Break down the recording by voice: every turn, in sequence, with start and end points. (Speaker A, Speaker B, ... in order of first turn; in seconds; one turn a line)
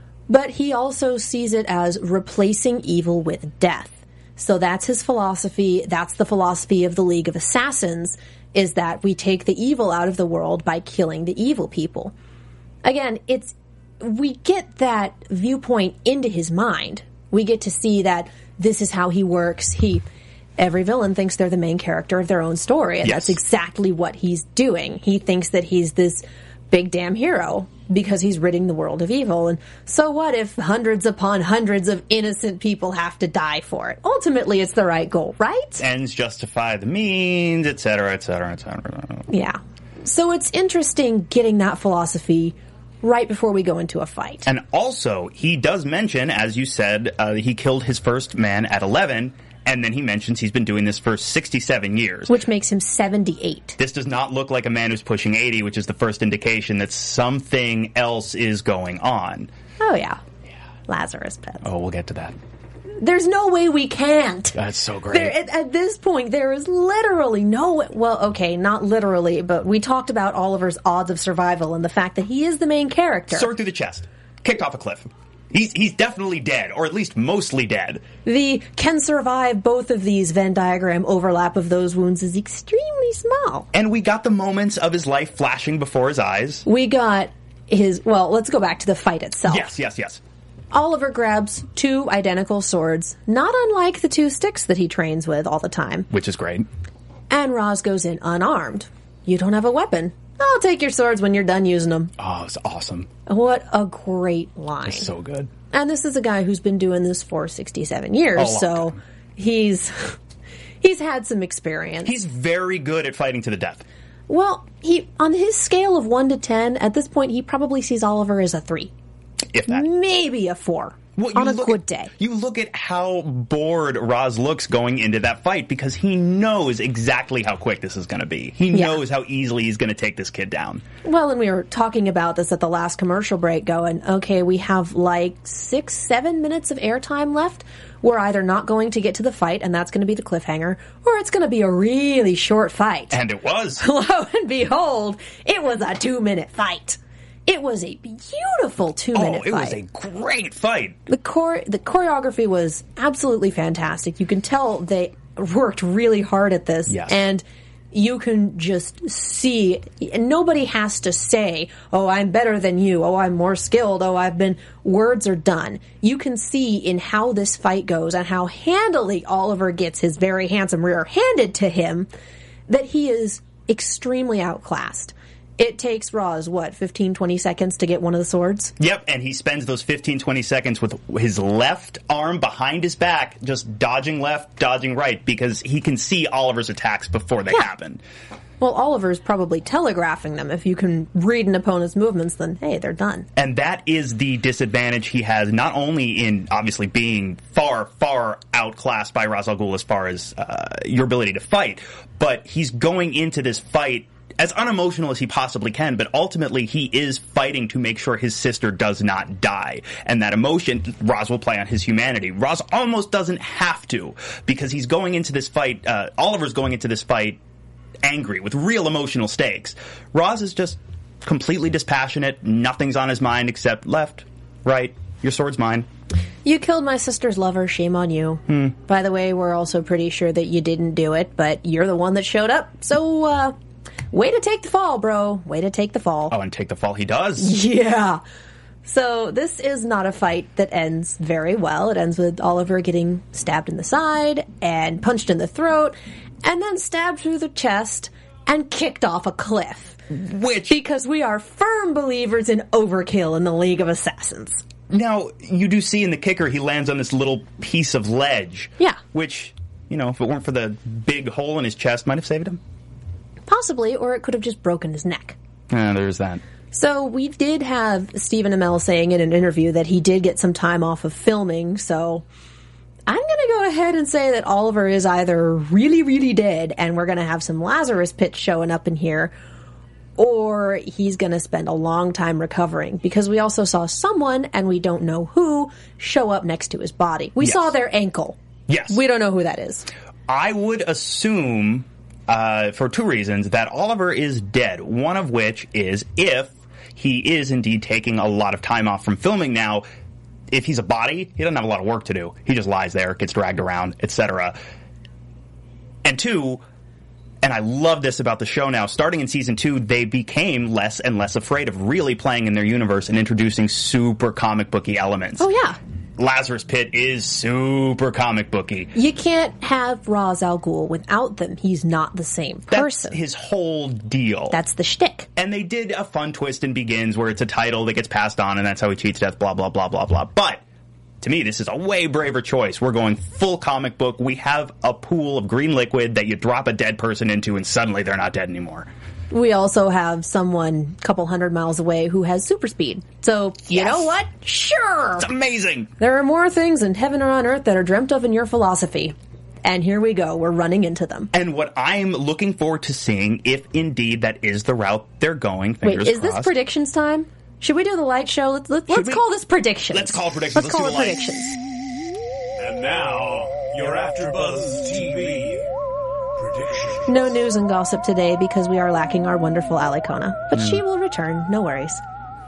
Speaker A: 0.3-12.1
Speaker A: 12.8-20.1
Speaker A: 20.6-35.8
Speaker B: 23.0-23.4
Speaker B: 35.8-39.3
Speaker A: 39.3-44.5
Speaker B: 44.5-52.3
Speaker A: 52.3-53.8
Speaker B: 53.8-59.5
Speaker A: 59.8-60.2
Speaker A: 60.9-61.6
Speaker B: 61.6-62.4
Speaker A: 63.0-64.6
Speaker B: 64.5-65.3
Speaker A: 65.1-73.5
Speaker B: 73.3-78.0
Speaker A: 78.2-83.7
Speaker B: 83.7-86.7
Speaker A: 86.7-89.7
Speaker B: 89.5-90.2
Speaker A: 90.7-96.1
Speaker B: 96.1-96.7
Speaker A: 97.3-102.1
Speaker B: 102.2-103.1
Speaker A: 103.3-105.1
Speaker B: 104.9-105.5
Speaker A: 105.7-110.2
Speaker B: 108.4-109.0
Speaker A: 110.8-112.1
Speaker B: 112.0-113.9
Speaker A: 114.3-118.9
Speaker B: 119.5-119.8
Speaker A: 119.7-122.1
Speaker B: 121.2-130.8
Speaker A: 128.7-129.0
Speaker A: 131.0-143.2
Speaker B: 143.1-143.8
Speaker A: 143.8-149.8
Speaker B: 149.1-151.0
Speaker A: 151.1-172.1
Speaker B: 156.9-157.2
Speaker A: 172.7-178.7
Speaker B: 178.8-188.0
Speaker A: 188.6-193.3
Speaker B: 193.4-217.4
Speaker B: 218.0-225.9
Speaker A: 226.4-233.6
Speaker A: 234.1-236.4
Speaker B: 236.3-237.5
Speaker A: 237.4-238.2
Speaker A: 238.8-250.0
Speaker B: 250.1-250.8
Speaker A: 250.7-254.6
Speaker B: 254.9-262.6
Speaker A: 263.5-265.4
Speaker B: 265.7-266.4
Speaker A: 266.7-272.2
Speaker A: 273.1-279.4
Speaker A: 280.2-289.9
Speaker B: 287.4-287.7
Speaker B: 288.7-289.0
Speaker B: 290.3-299.8
Speaker B: 300.5-304.6
Speaker B: 306.0-306.6
Speaker B: 307.4-315.5
Speaker A: 315.4-315.8
Speaker B: 316.2-318.9
Speaker A: 318.9-323.2
Speaker B: 322.7-324.6
Speaker A: 324.5-325.3
Speaker B: 325.4-330.6
Speaker B: 331.2-338.9
Speaker A: 339.3-345.3
Speaker B: 343.7-344.1
Speaker B: 345.2-345.9
Speaker A: 346.0-351.3
Speaker B: 351.3-356.5
Speaker A: 355.8-361.6
Speaker B: 358.9-359.2
Speaker B: 359.9-361.3
Speaker C: 362.6-365.6
Speaker C: 366.4-367.1
Speaker A: 367.1-372.0